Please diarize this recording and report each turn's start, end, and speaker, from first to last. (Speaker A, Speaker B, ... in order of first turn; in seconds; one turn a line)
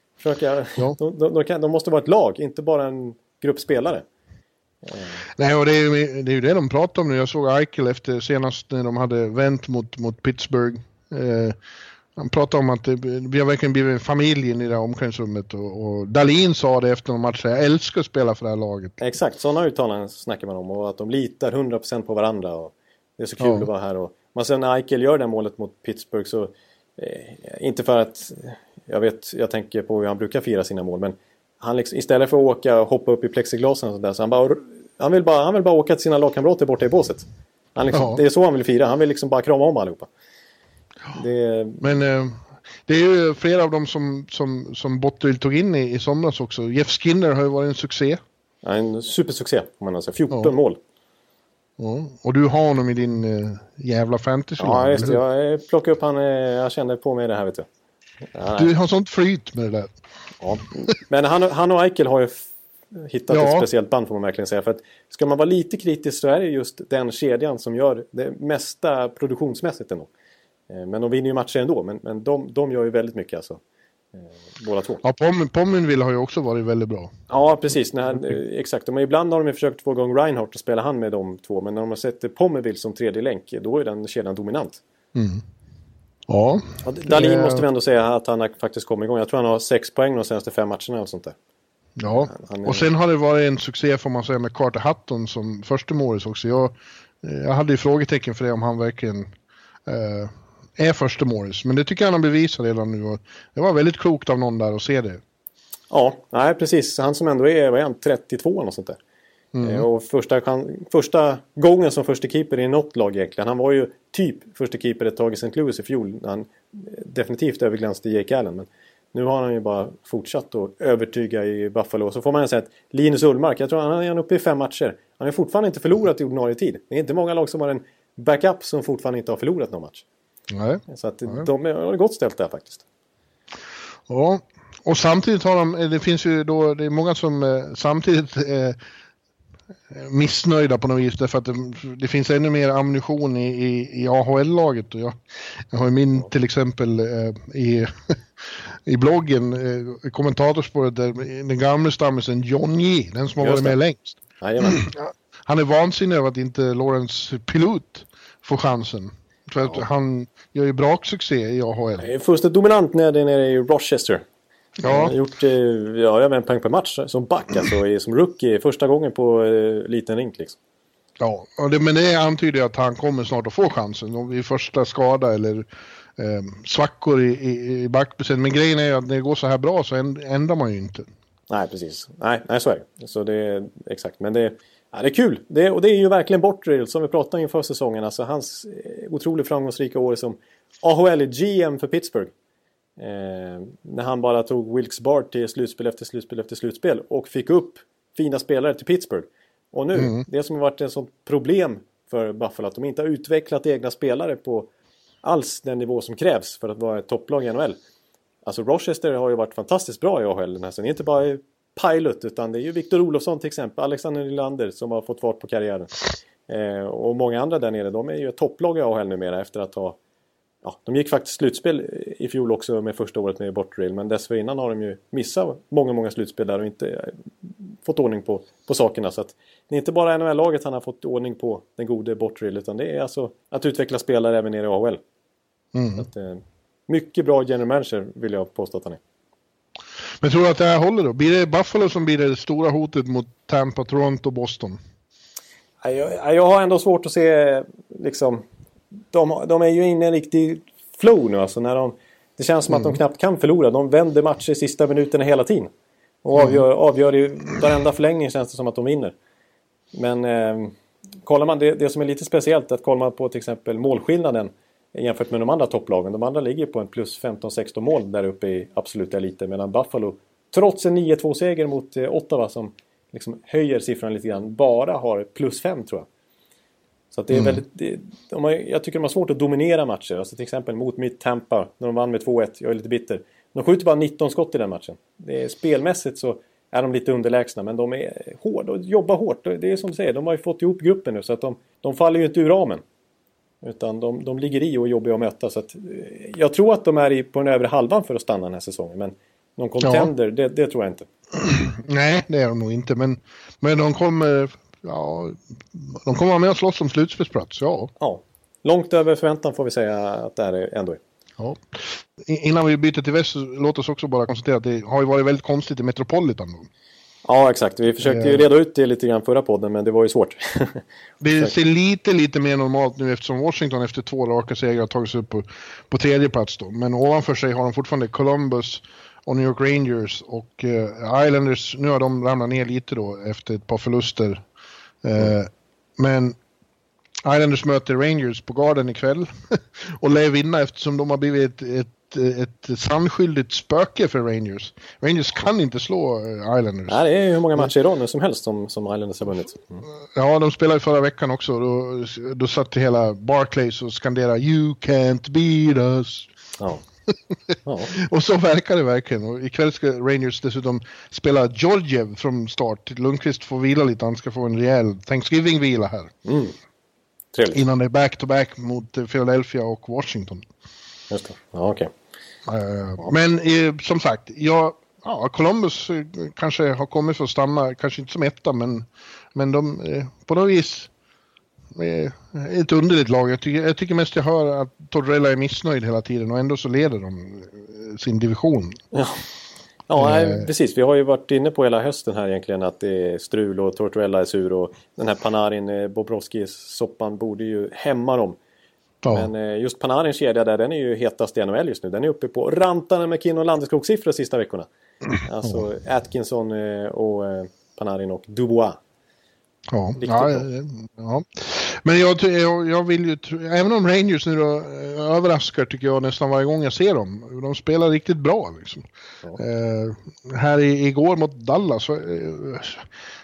Speaker A: 0.2-4.0
Speaker A: 4.8-5.2
Speaker B: 5.3-11.6
Speaker B: 12.2-19.0
Speaker A: 19.0-40.1
Speaker B: 23.4-23.7
Speaker B: 37.9-38.2
Speaker A: 41.1-41.9
Speaker B: 41.8-48.2
Speaker A: 48.6-50.8
Speaker B: 51.8-55.2
Speaker A: 54.6-57.6
Speaker A: 58.3-58.7
Speaker B: 58.6-59.9
Speaker A: 60.4-70.1
Speaker B: 63.3-63.7
Speaker A: 70.7-73.6
Speaker A: 74.2-75.0
Speaker B: 75.0-77.1
Speaker A: 77.3-84.8
Speaker B: 85.1-85.4
Speaker B: 86.3-87.6
Speaker A: 86.8-91.3
Speaker B: 92.0-99.3
Speaker A: 92.1-92.9
Speaker B: 99.9-105.2
Speaker A: 105.9-109.0
Speaker B: 109.5-109.8
Speaker A: 109.6-130.0
Speaker B: 130.5-131.4
Speaker A: 130.9-132.8
Speaker B: 134.1-138.8
Speaker B: 139.9-162.1
Speaker A: 153.4-153.8
Speaker A: 154.4-154.8
Speaker A: 162.0-164.2
Speaker B: 164.8-165.1
Speaker A: 164.8-170.6
Speaker B: 171.2-181.1
Speaker A: 181.5-192.3
Speaker A: 193.0-204.7
Speaker B: 199.9-200.2
Speaker A: 205.2-207.8
Speaker A: 208.4-220.0
Speaker A: 220.6-235.0
Speaker B: 235.7-236.1
Speaker A: 236.0-239.0
Speaker B: 240.2-244.8
Speaker A: 245.8-248.4
Speaker A: 249.1-255.7
Speaker A: 256.2-259.1
Speaker A: 259.9-276.1
Speaker A: 277.1-292.8
Speaker B: 277.3-277.6
Speaker A: 293.6-301.1
Speaker B: 299.8-300.1
Speaker B: 301.6-307.9
Speaker A: 308.0-311.0
Speaker B: 311.4-316.7
Speaker A: 317.2-320.8
Speaker B: 318.0-318.4
Speaker B: 321.2-334.4
Speaker B: 335.0-336.4
Speaker B: 337.2-347.0
Speaker A: 346.9-349.8
Speaker B: 350.1-356.3
Speaker A: 356.6-356.8
Speaker A: 357.6-357.9
Speaker B: 357.9-366.1
Speaker A: 366.2-366.6
Speaker A: 367.3-367.6
Speaker B: 367.5-370.4
Speaker A: 371.1-371.9
Speaker B: 372.4-380.9
Speaker B: 381.7-388.8
Speaker A: 388.9-389.2
Speaker A: 389.9-398.4
Speaker B: 390.0-390.5
Speaker B: 399.0-399.3
Speaker A: 399.1-408.8
Speaker B: 409.7-418.8
Speaker A: 410.0-410.4
Speaker B: 419.4-422.9